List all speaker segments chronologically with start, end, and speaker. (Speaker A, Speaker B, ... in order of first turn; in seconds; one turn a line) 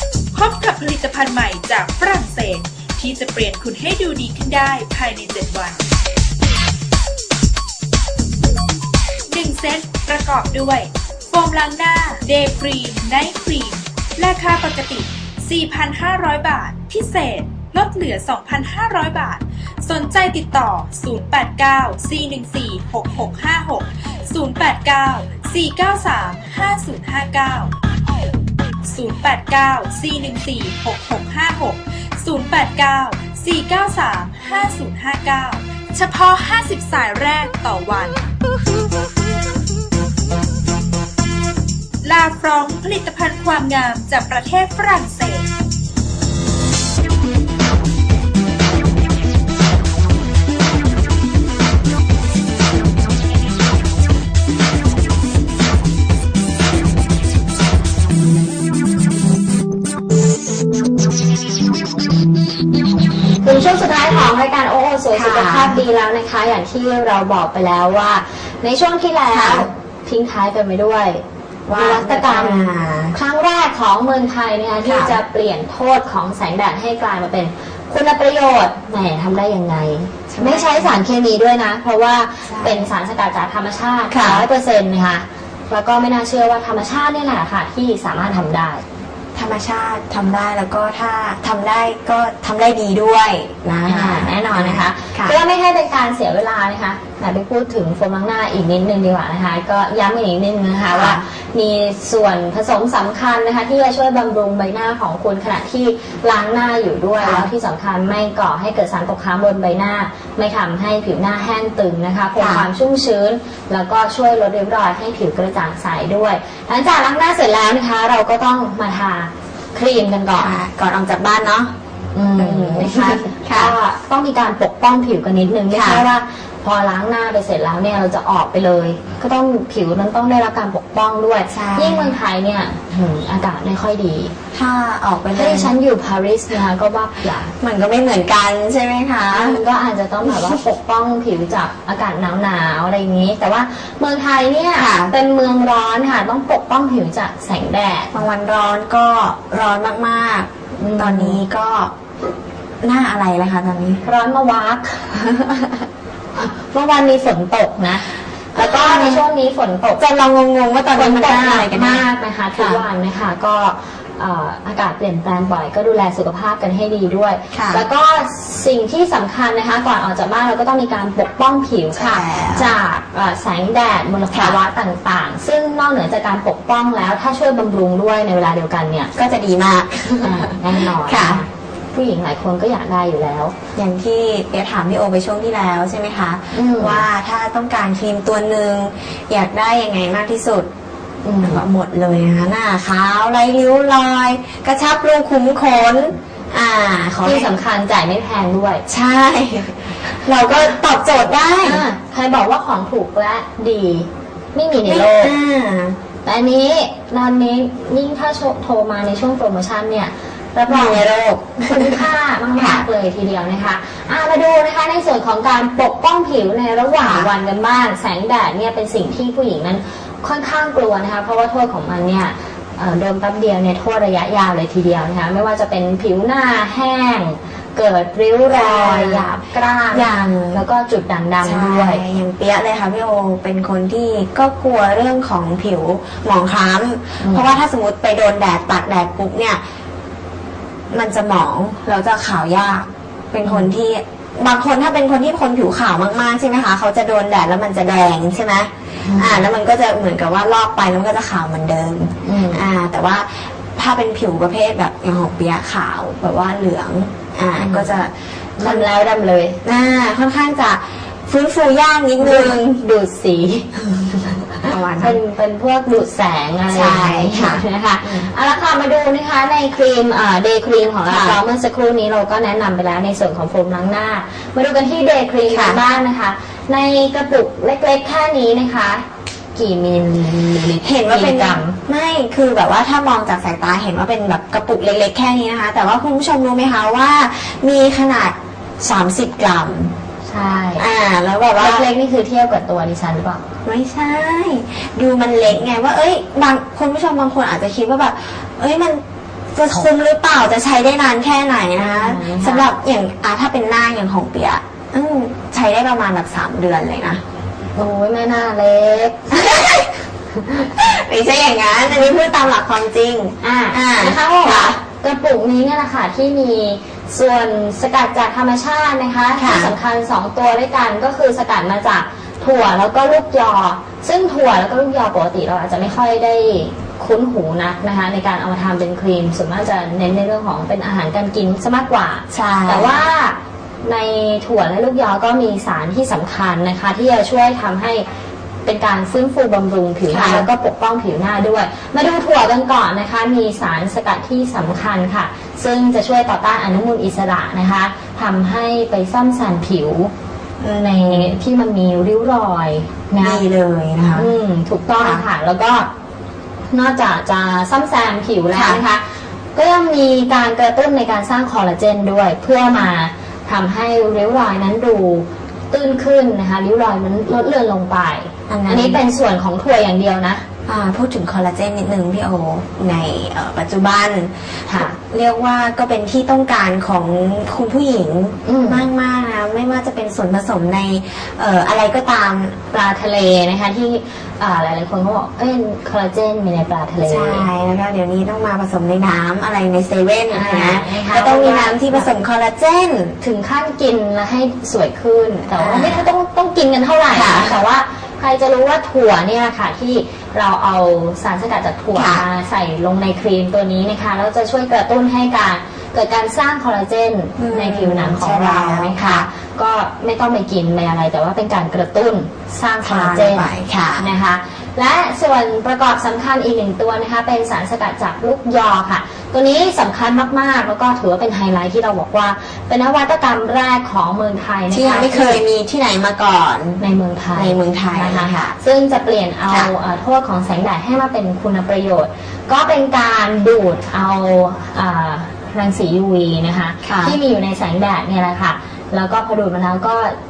Speaker A: 0.3-5.8
Speaker A: 9.3-27.7
Speaker A: 28.8-38.2
Speaker A: 42.0-45.5
Speaker B: 63.4-88.8
Speaker C: 65.1-65.8
Speaker C: 69.3-69.7
Speaker C: 71.7-73.2
Speaker C: 74.8-75.2
Speaker C: 80.3-81.0
Speaker C: 82.4-82.9
Speaker C: 84.1-84.5
Speaker C: 89.3-95.4
Speaker B: 93.8-120.6
Speaker C: 100.9-101.2
Speaker C: 107.2-107.5
Speaker C: 112.3-112.7
Speaker C: 120.3-121.7
Speaker B: 122.1-134.3
Speaker C: 122.3-123.7
Speaker C: 125.7-126.0
Speaker C: 131.5-132.2
Speaker C: 134.5-135.7
Speaker B: 135.3-137.5
Speaker C: 137.6-139.6
Speaker B: 139.3-148.1
Speaker C: 140.3-140.6
Speaker C: 144.7-145.1
Speaker C: 148.1-151.9
Speaker B: 150.8-151.4
Speaker C: 152.8-154.0
Speaker B: 154.0-155.2
Speaker C: 155.4-155.7
Speaker B: 156.3-160.0
Speaker C: 158.5-159.2
Speaker C: 160.0-162.8
Speaker B: 160.9-179.1
Speaker C: 167.5-167.8
Speaker C: 171.9-172.7
Speaker C: 174.3-174.6
Speaker C: 179.1-181.4
Speaker B: 180.2-183.6
Speaker C: 183.8-190.7
Speaker B: 186.5-187.0
Speaker B: 191.2-191.6
Speaker C: 191.4-197.5
Speaker B: 197.2-198.8
Speaker C: 198.9-201.8
Speaker B: 201.6-205.3
Speaker C: 204.8-206.0
Speaker B: 206.2-211.0
Speaker C: 210.7-212.8
Speaker B: 211.7-232.0
Speaker C: 217.0-217.3
Speaker C: 228.5-229.3
Speaker C: 229.9-230.6
Speaker C: 231.4-239.6
Speaker B: 237.2-237.5
Speaker C: 240.9-258.9
Speaker B: 243.4-243.7
Speaker B: 249.0-249.4
Speaker B: 252.2-252.7
Speaker B: 257.6-258.0
Speaker B: 258.6-259.6
Speaker C: 259.6-262.8
Speaker B: 262.2-281.8
Speaker C: 264.6-265.2
Speaker C: 266.7-268.3
Speaker C: 271.1-271.4
Speaker C: 275.5-275.8
Speaker C: 280.8-289.9
Speaker B: 290.3-290.9
Speaker C: 290.8-291.9
Speaker B: 291.6-293.4
Speaker C: 293.6-299.0
Speaker C: 299.5-307.2
Speaker B: 301.8-302.7
Speaker B: 307.7-309.5
Speaker C: 309.3-309.9
Speaker C: 310.5-314.8
Speaker B: 313.4-338.0
Speaker C: 319.4-319.7
Speaker C: 332.3-332.9
Speaker B: 338.6-350.1
Speaker C: 340.1-340.5
Speaker C: 350.6-351.4
Speaker B: 350.7-353.4
Speaker C: 353.2-354.3
Speaker B: 354.1-355.9
Speaker C: 355.0-355.3
Speaker B: 356.7-359.0
Speaker C: 358.5-358.8
Speaker B: 359.5-370.4
Speaker C: 368.5-369.0
Speaker C: 370.6-382.6
Speaker B: 374.7-374.9
Speaker B: 378.4-378.9
Speaker B: 382.7-387.5
Speaker C: 387.0-393.1
Speaker B: 390.3-392.1
Speaker B: 393.2-425.4
Speaker C: 395.5-396.1
Speaker C: 397.1-397.6
Speaker C: 401.9-402.2
Speaker C: 407.4-409.2
Speaker C: 412.8-414.1
Speaker C: 424.7-426.8
Speaker B: 426.8-440.1
Speaker C: 427.3-428.6
Speaker C: 436.8-437.2